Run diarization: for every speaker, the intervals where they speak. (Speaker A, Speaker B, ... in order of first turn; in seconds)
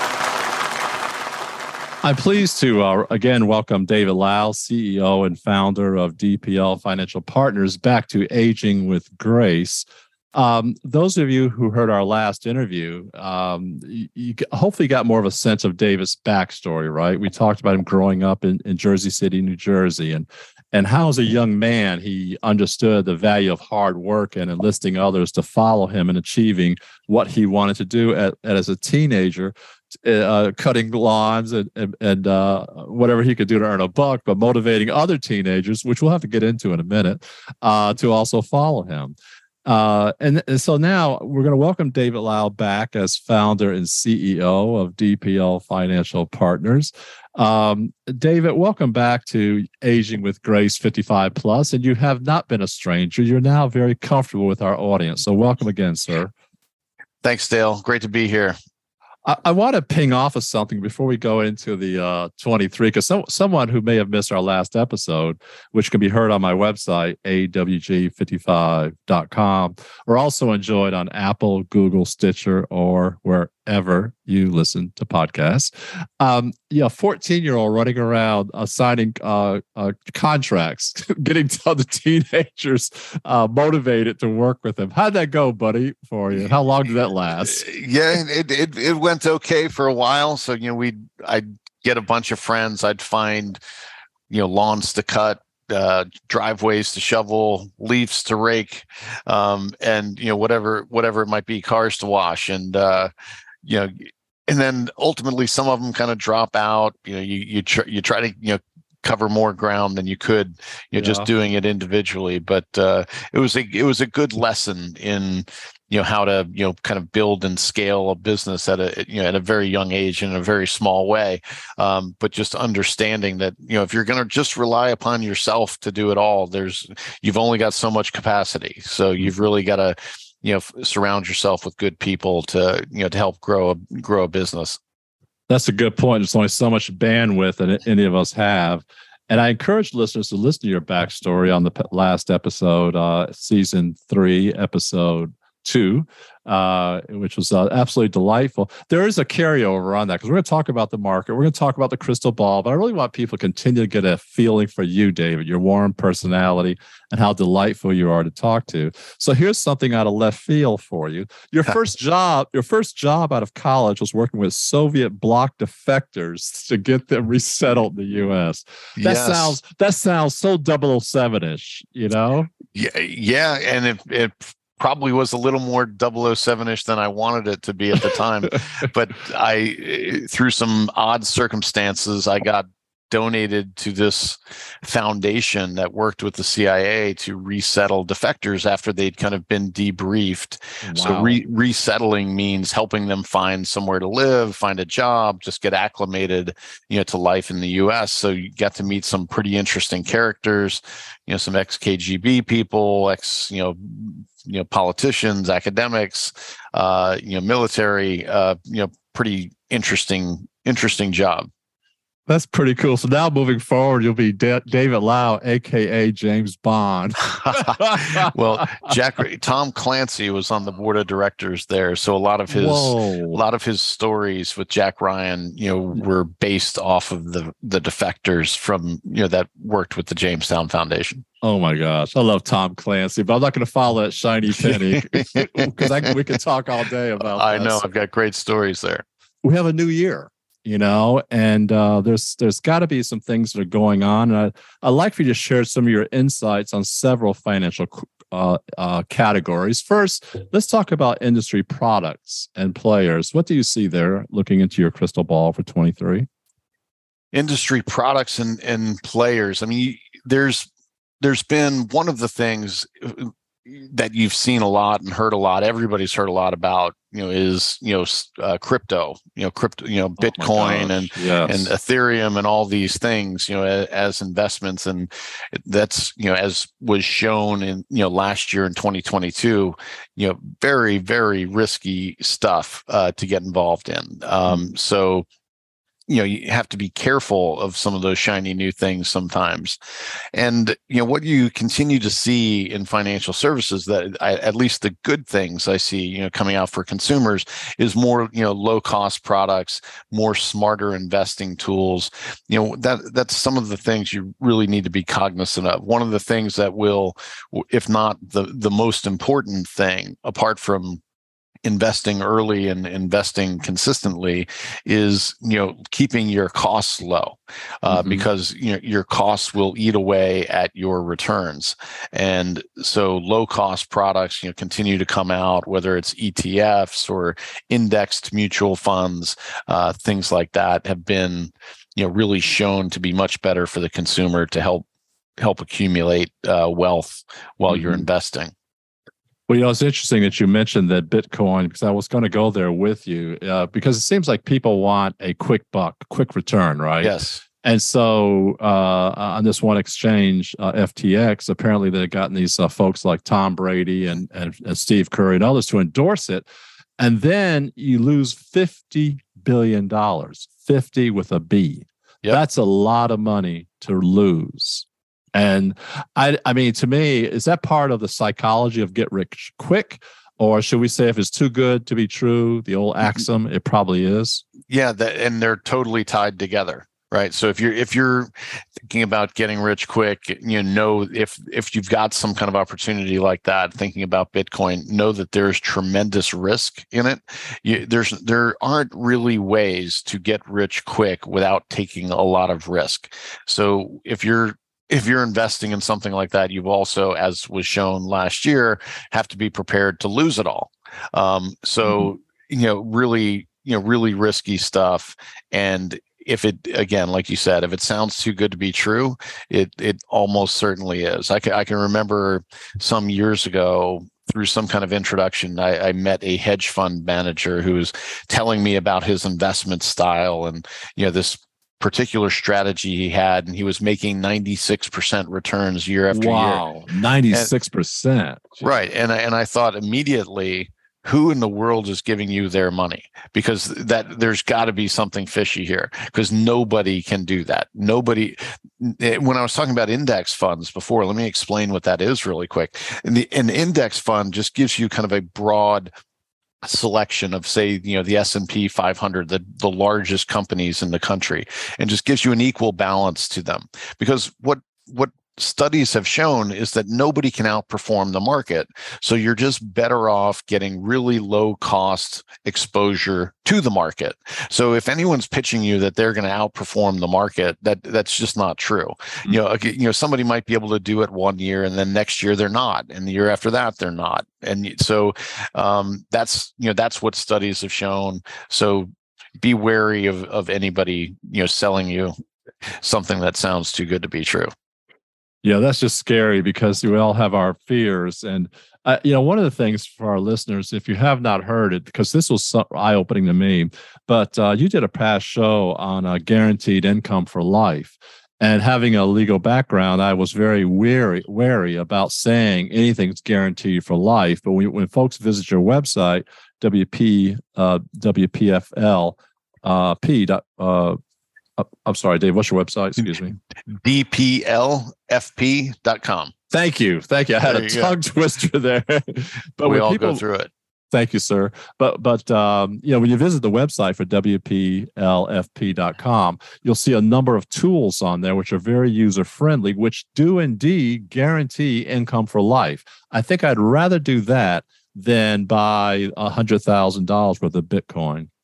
Speaker A: 2.0-56.3, 59.2-87.6, 111.0-111.3, 135.5-172.5, 190.8-191.4, 212.3-218.3, 222.5-223.4, 231.4-237.8, 239.4-256.3, 270.2-271.7, 317.9-318.2, 337.7-338.0, 339.5-356.4, 357.0-374.4, 426.1-428.7, 485.4-511.0, 511.6-513.4, 516.5-520.2, 520.9-538.3
Speaker B: 57.2-58.5, 87.5-93.6, 94.3-103.1, 103.6-134.8, 169.0-169.6, 172.7-211.5, 217.4-231.2, 234.6-235.9, 237.2-239.0, 257.3-260.7, 261.2-285.2, 286.1-289.8, 290.3-311.0, 311.6-334.9, 335.4-338.5, 347.0-347.4, 374.7-427.5, 428.6-445.9, 446.6-482.1, 482.8-484.5, 513.7-516.3, 517.5-517.9, 519.6-520.5